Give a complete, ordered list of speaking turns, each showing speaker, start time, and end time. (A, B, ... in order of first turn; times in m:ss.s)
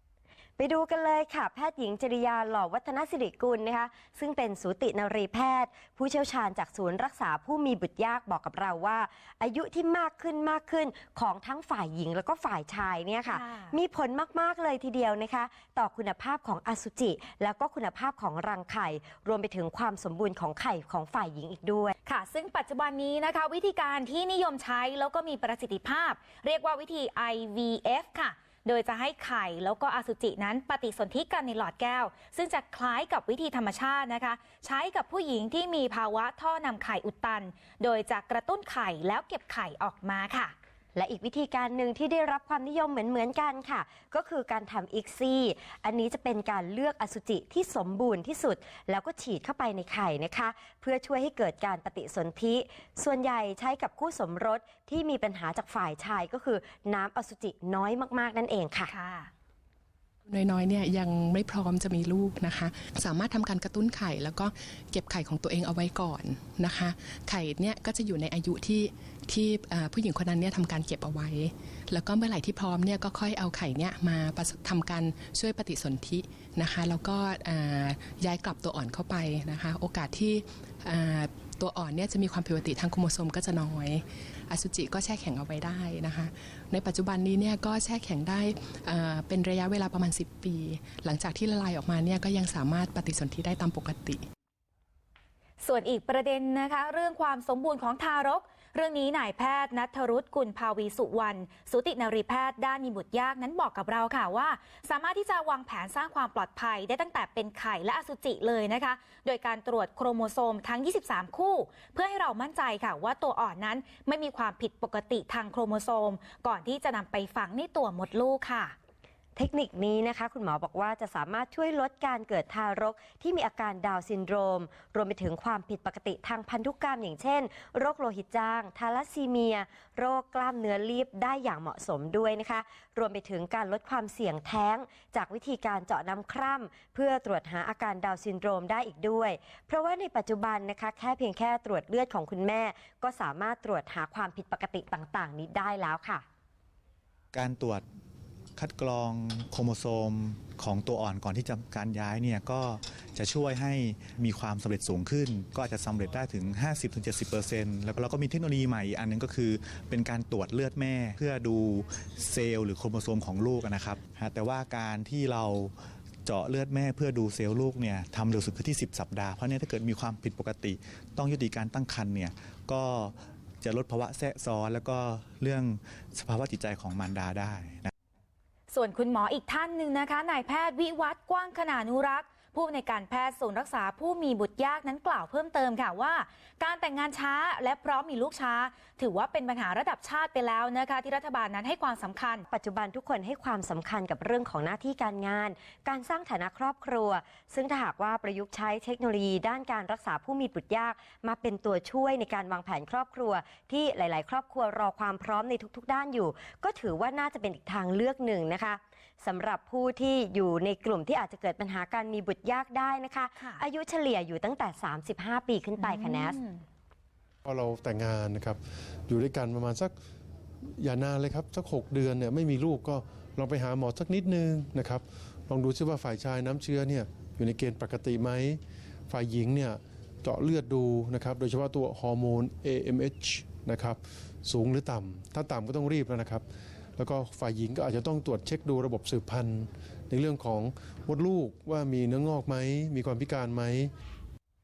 0:00.6-0:22.0 A
0:13.3-0:13.8 B
0:22.1-0:40.5 B
0:41.0-0:58.9 A
0:58.9-0:59.3 B
1:00.3-1:34.2 C
1:35.6-1:58.7 B
1:59.4-2:26.2 A
2:27.3-2:27.8 D
2:28.6-2:45.7 D
2:46.2-2:57.9 D
2:58.7-3:12.4 B
3:12.5-3:36.4 A
3:33.4-3:33.6 B
3:35.8-3:36.6 B
3:37.5-3:40.0 E
3:40.8-3:56.4 E
3:57.0-4:03.9 E